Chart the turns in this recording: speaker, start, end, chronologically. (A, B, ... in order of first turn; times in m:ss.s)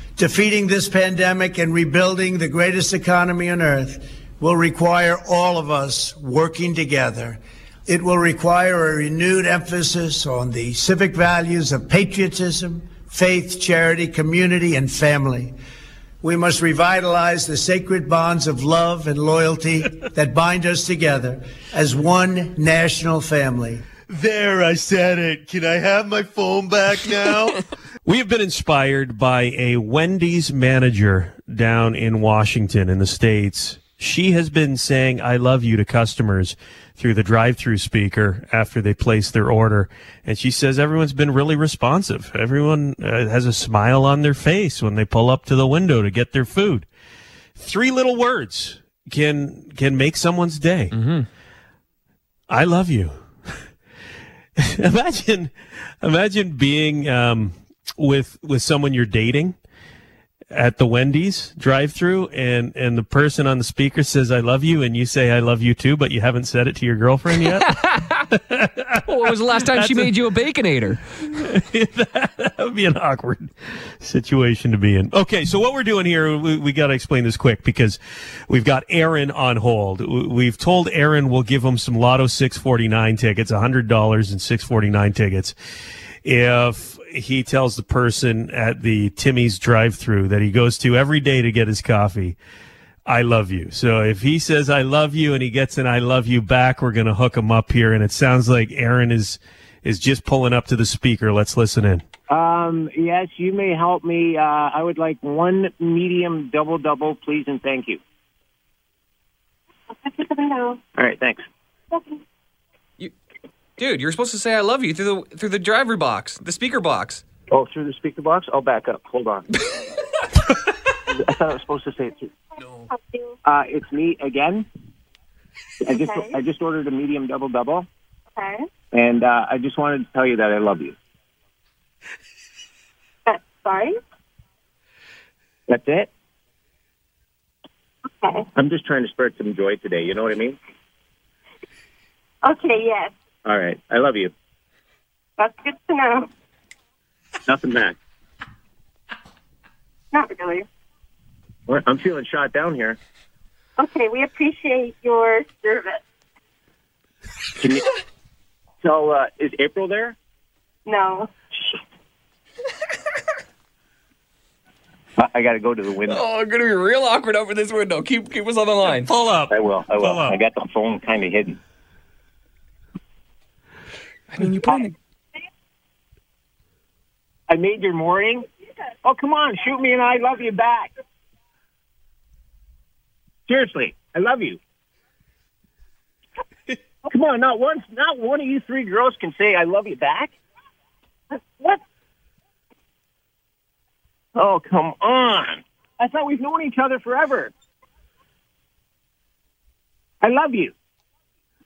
0:00.2-0:15.6 A
0:16.2-0:23.8 A
0:24.1-0:46.9 B
0:47.6-0:50.9 B
0:50.9-0:51.3 C
0:52.5-0:53.6 B
0:54.6-0:59.6 B
1:00.5-1:07.7 B
1:07.4-1:08.3 C
1:08.3-1:10.1 B
1:09.0-1:11.0 C
1:11.2-1:18.0 B
1:18.5-1:25.5 B
1:26.2-1:32.4 B
1:33.1-1:42.0 B
1:42.3-1:48.0 D
1:50.0-1:50.8 E
1:51.0-1:51.4 D
1:51.9-1:52.2 E
1:53.8-1:57.2 C
1:57.5-1:59.4 D
2:01.1-2:02.3 D
2:02.6-2:02.9 C
2:02.9-2:03.4 E
2:03.4-2:04.6 D
2:05.8-2:07.9 D
2:05.8-2:06.4 E
2:08.4-2:08.7 E
2:08.9-2:11.0 D
2:13.2-2:14.0 E
2:15.7-2:16.1 D
2:18.2-2:18.5 E
2:18.6-2:20.6 D
2:22.4-2:23.1 E
2:23.4-2:24.3 D
2:25.4-2:26.3 E
2:27.5-2:28.0 D
2:30.1-2:30.6 E
2:31.7-2:33.0 D
2:33.8-2:36.0 E
2:37.6-2:37.9 D
2:38.8-2:40.2 D
2:40.8-2:41.3 E
2:45.2-2:46.2 D
2:46.0-2:49.1 C
2:49.1-2:50.4 B
2:49.5-2:51.6 D
2:54.3-2:54.9 C
2:57.5-2:58.4 D
2:59.0-3:00.9 D
3:03.5-3:04.6 D
3:07.1-3:10.4 D
3:14.3-3:17.5 D
3:20.2-3:20.7 D